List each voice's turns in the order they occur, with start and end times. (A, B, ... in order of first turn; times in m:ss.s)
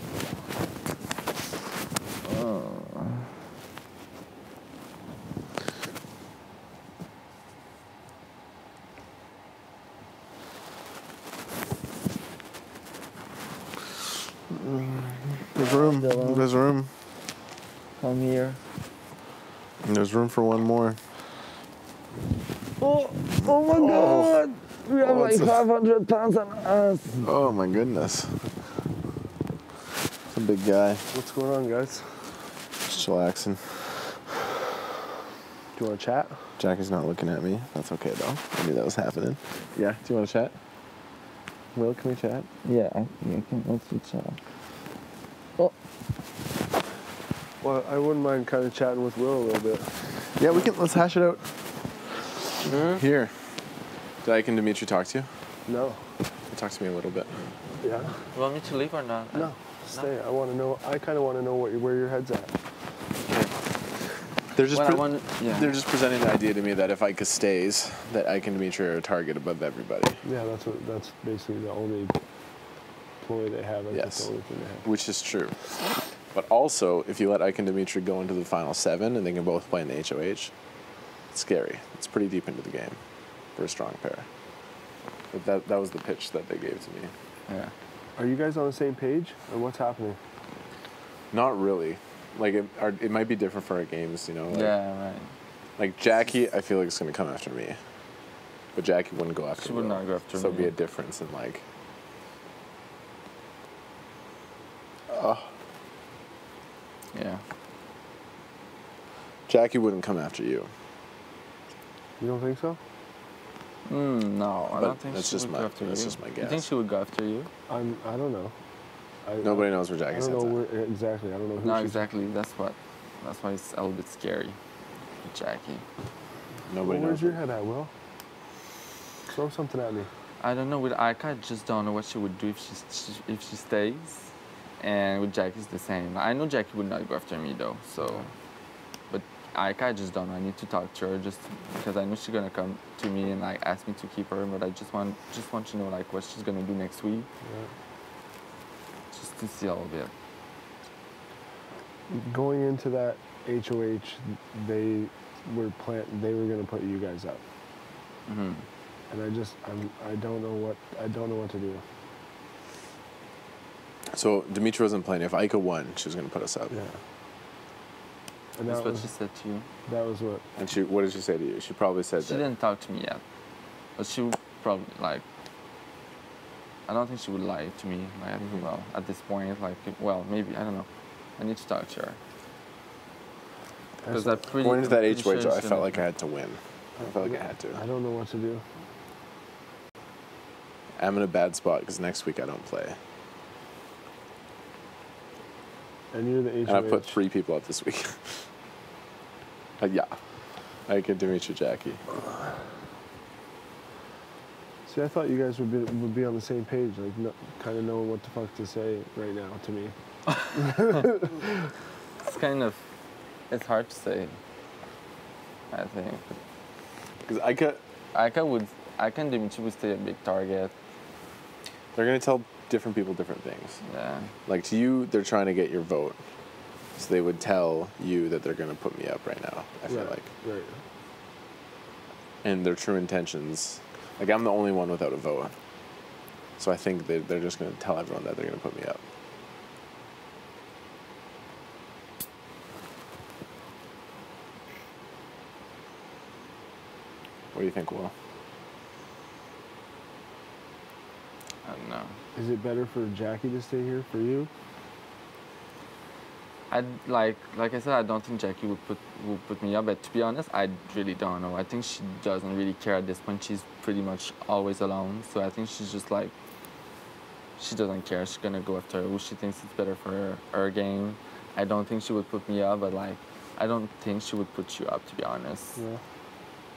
0:02.2-0:03.2 A
0:14.5-0:16.9 B
0:15.6-0:16.5 A
0:18.0-0:18.6 A
0:19.8-0:21.0 B
0:22.8-0:27.3 A
0:23.7-0:24.4 B
0:25.0-0:25.6 B
0:27.2-0:28.5 B
0:30.3-0:31.1 B
0:31.1-0:32.4 C
0:32.8-0:34.1 B
0:35.7-0:36.5 C
0:36.6-0:40.5 B
0:41.7-0:42.5 B
0:42.6-0:44.4 A
0:47.6-0:50.2 C
0:50.2-0:52.0 B
0:52.6-0:53.0 A
0:52.8-0:53.7 B
0:54.2-0:55.3 B
0:55.7-0:56.1 C
0:56.5-0:57.5 B
0:57.8-0:58.3 C
0:58.3-1:00.1 A
0:59.3-1:02.5 C
1:04.5-1:10.2 B
1:04.7-1:05.7 A
1:10.2-1:12.2 C
1:13.2-1:14.8 C
1:13.9-1:20.5 B
1:21.3-1:23.0 B
1:23.5-1:24.3 B
1:25.3-1:27.1 B
1:27.5-1:27.7 A
1:28.2-1:30.2 C
1:31.3-1:34.7 B
1:34.5-1:35.3 A
1:35.8-1:37.8 B
1:38.7-1:41.6 B
1:39.5-1:40.7 A
1:45.1-1:45.5 B
1:47.1-1:47.4 A
1:49.5-1:50.7 B
1:52.2-1:52.8 C
1:53.8-1:57.5 A
1:54.7-1:56.6 B
1:57.7-1:58.5 C
1:59.2-2:02.0 C
1:59.4-2:00.6 B
2:01.6-2:04.6 A
2:05.2-2:05.8 A
2:06.7-2:07.4 B
2:06.8-2:07.9 C
2:09.3-2:10.1 C
2:10.4-2:18.3 A
2:19.1-2:27.3 A
2:29.1-2:30.1 A
2:32.1-2:37.4 C
2:38.2-2:38.6 A
2:39.1-2:41.8 C
2:44.1-2:46.8 B
2:46.7-2:47.0 C
2:48.6-2:49.1 C
2:48.7-2:49.7 A
2:49.9-2:50.4 C
2:50.6-2:52.5 B
2:52.2-2:53.2 A
2:54.0-2:55.2 A
2:56.9-3:02.2 A
2:58.4-2:58.6 B
3:04.0-3:04.4 C
3:04.1-3:06.0 A
3:04.6-3:07.8 B
3:07.2-3:08.6 C
3:11.0-3:13.0 B
3:16.1-3:17.2 C
3:16.6-3:18.5 B
3:19.8-3:20.2 B
3:20.9-3:22.0 B
3:24.8-3:29.9 C
3:30.5-3:31.3 C
3:32.2-3:32.8 A
3:33.5-3:34.4 A
3:35.7-3:36.4 A
3:37.2-3:37.8 B
3:38.1-3:40.7 A
3:41.9-3:43.8 B
3:43.8-3:44.3 A
3:44.4-3:46.2 B
3:46.9-3:50.3 B
3:49.9-3:50.8 C
3:52.4-3:55.6 B
3:56.6-3:59.0 B
4:07.5-4:08.1 B
4:11.6-4:12.2 A
4:12.3-4:14.5 C
4:16.7-4:26.3 A
4:27.6-4:35.8 A
4:35.8-4:36.0 C